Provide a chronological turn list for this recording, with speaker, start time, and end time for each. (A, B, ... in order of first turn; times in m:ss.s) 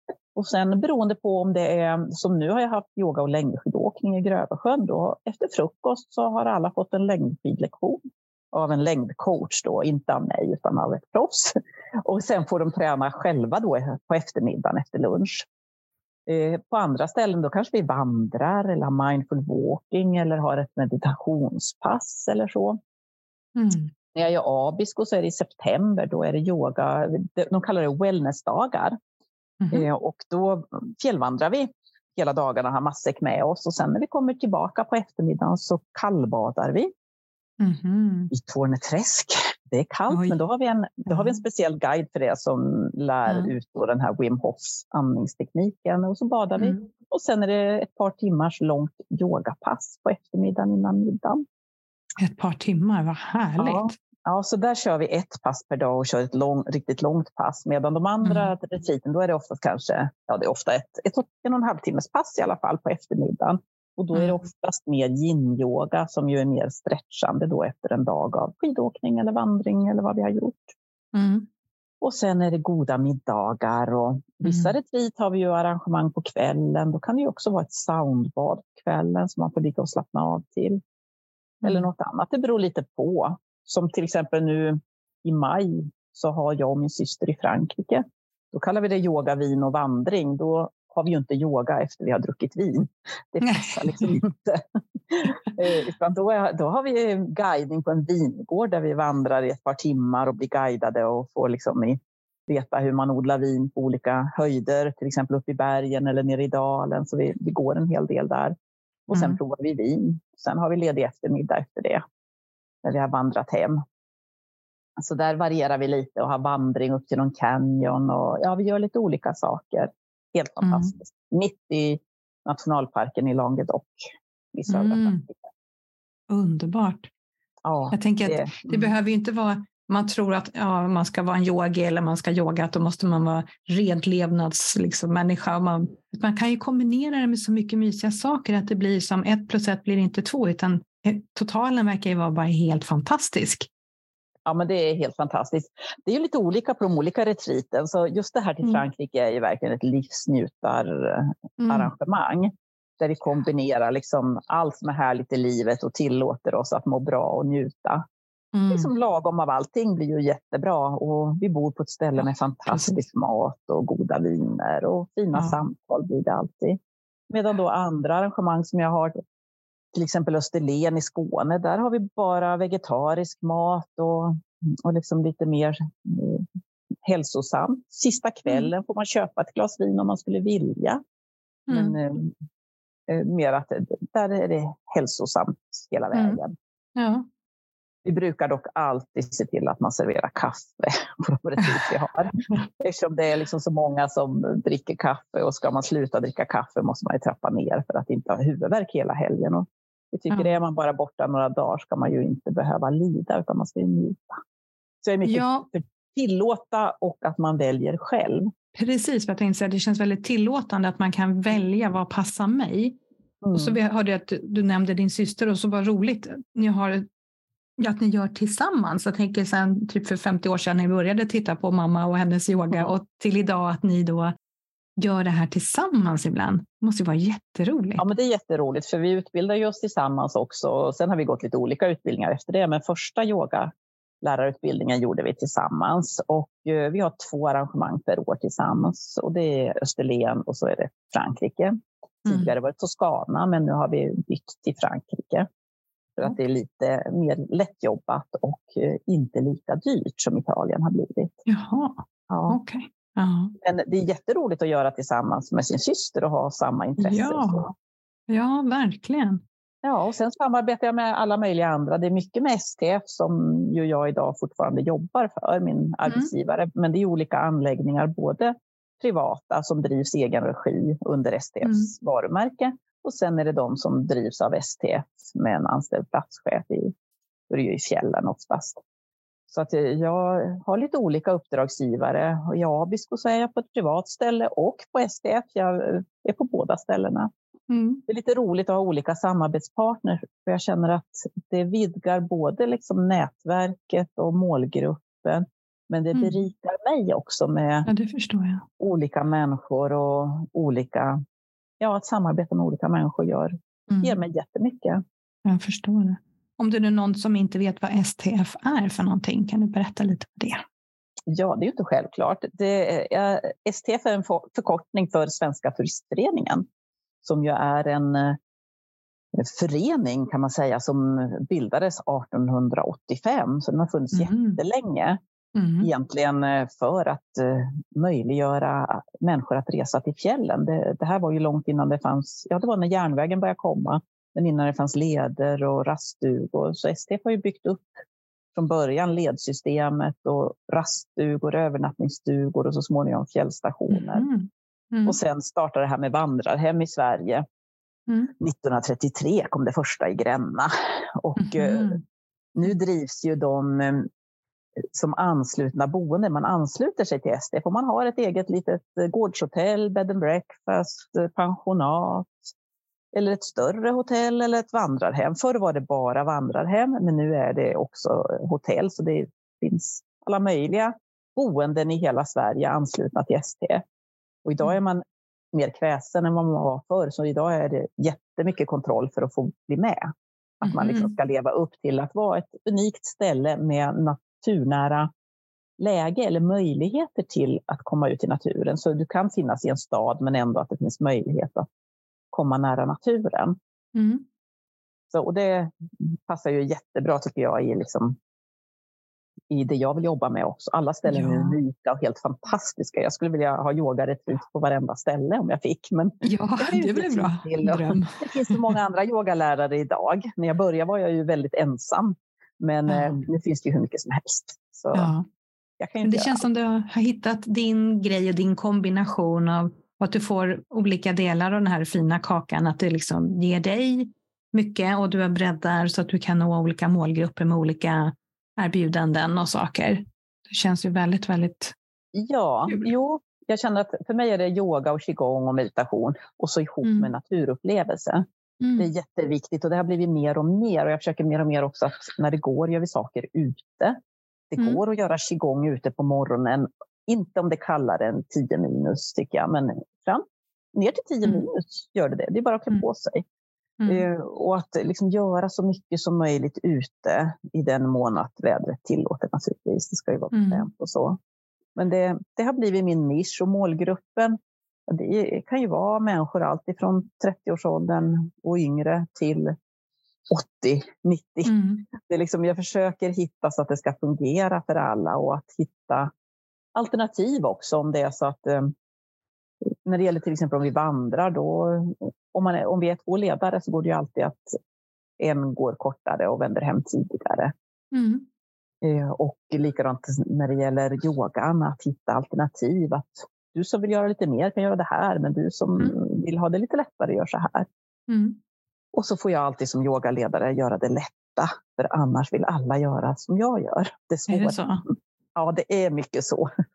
0:00.4-0:08.0 A
0:08.5-0:15.5 A
0:16.3-0:22.8 A
0:23.6-0:23.9 B
0:24.1-0:29.0 A
0:29.6-0:29.9 B
0:29.7-0:36.9 A
0:37.6-0:38.3 B
0:38.3-0:51.4 A
0:40.1-0:40.4 B
0:41.1-0:41.4 B
0:43.3-0:43.5 B
0:46.6-0:46.8 B
0:52.2-0:53.9 B
0:53.6-1:10.8 A
0:58.2-0:58.5 B
1:04.1-1:04.4 B
1:11.1-1:11.5 B
1:12.0-1:20.8 A
1:14.4-1:14.7 B
1:21.6-1:21.9 B
1:21.6-1:48.6 A
1:33.4-1:34.2 B
1:49.1-1:52.0 A
1:49.1-1:49.4 B
1:52.8-1:53.8 A
1:55.0-2:04.0 A
2:00.6-2:00.9 B
2:04.5-2:05.3 A
2:04.7-2:05.2 B
2:06.3-2:07.1 B
2:07.6-2:08.9 A
2:07.9-2:23.7 B
2:24.4-2:38.0 A
2:31.6-2:31.9 B
2:38.5-2:38.9 B
2:38.7-2:46.8 A
2:42.2-2:43.0 B
2:45.3-2:45.6 B
2:47.3-2:49.2 A
2:49.9-2:56.5 A
2:57.1-3:01.0 A
3:01.7-3:02.0 B
3:01.7-3:02.3 A
3:03.1-3:06.5 A
3:06.1-3:06.4 B
3:06.9-3:07.3 B
3:08.0-3:24.4 A
3:25.0-3:28.5 A
3:25.2-3:25.7 B
3:28.8-3:33.0 B
3:33.4-3:33.8 A
3:33.5-3:37.1 B
3:37.8-3:44.3 B
3:45.0-3:48.1 B
3:48.0-3:53.7 A
3:54.2-4:05.5 A
4:02.3-4:02.5 B
4:06.2-4:11.4 A
4:11.4-4:13.6 B
4:12.3-4:12.6 A
4:13.6-4:17.7 A
4:17.0-4:17.7 B
4:18.3-4:19.4 B
4:19.8-4:36.9 A
4:26.1-4:26.3 B
4:31.6-4:31.9 B
4:37.5-4:38.8 A
4:39.5-4:47.3 A
4:47.7-4:48.0 B
4:48.1-4:57.9 A
4:57.9-4:58.6 B
4:58.8-5:01.2 A
5:01.8-5:05.0 A
5:03.9-5:04.2 B
5:05.4-5:10.6 B
5:11.3-5:16.6 A
5:17.2-5:18.4 A
5:19.3-5:25.2 A
5:24.1-5:24.6 B
5:25.6-5:25.9 B
5:25.8-5:37.9 A
5:38.6-5:44.3 A
5:43.9-5:45.2 B
5:45.0-5:47.4 A
5:48.4-5:52.0 A
5:51.4-5:52.0 B
5:52.6-5:54.1 A
5:54.9-6:02.4 A
6:03.1-6:13.8 A
6:14.4-6:20.1 A
6:20.6-6:25.1 A
6:20.6-6:21.1 B
6:25.8-6:31.6 A
6:32.3-6:33.6 A
6:33.9-6:34.2 B
6:35.1-6:38.2 A
6:39.5-6:55.1 A
6:41.1-6:41.6 B
6:46.2-6:48.7 B
6:52.9-6:53.2 B
6:54.9-6:55.3 B
6:55.8-6:56.4 A
6:56.0-7:11.7 B
7:12.1-7:18.2 A
7:16.8-7:17.1 B
7:18.6-7:18.9 B
7:18.8-7:24.0 A
7:24.5-7:33.2 A
7:33.8-7:34.1 B
7:33.9-7:41.2 A
7:40.3-7:40.7 B
7:41.8-7:44.4 A
7:44.9-7:49.5 A
7:50.3-7:56.1 A
7:51.4-7:51.8 B
7:56.8-7:58.7 A
7:59.8-8:04.6 A
8:05.2-8:07.5 A
8:07.9-8:08.3 B
8:08.8-8:17.7 A
8:18.1-8:18.4 B
8:18.9-8:26.5 A
8:24.3-8:24.8 B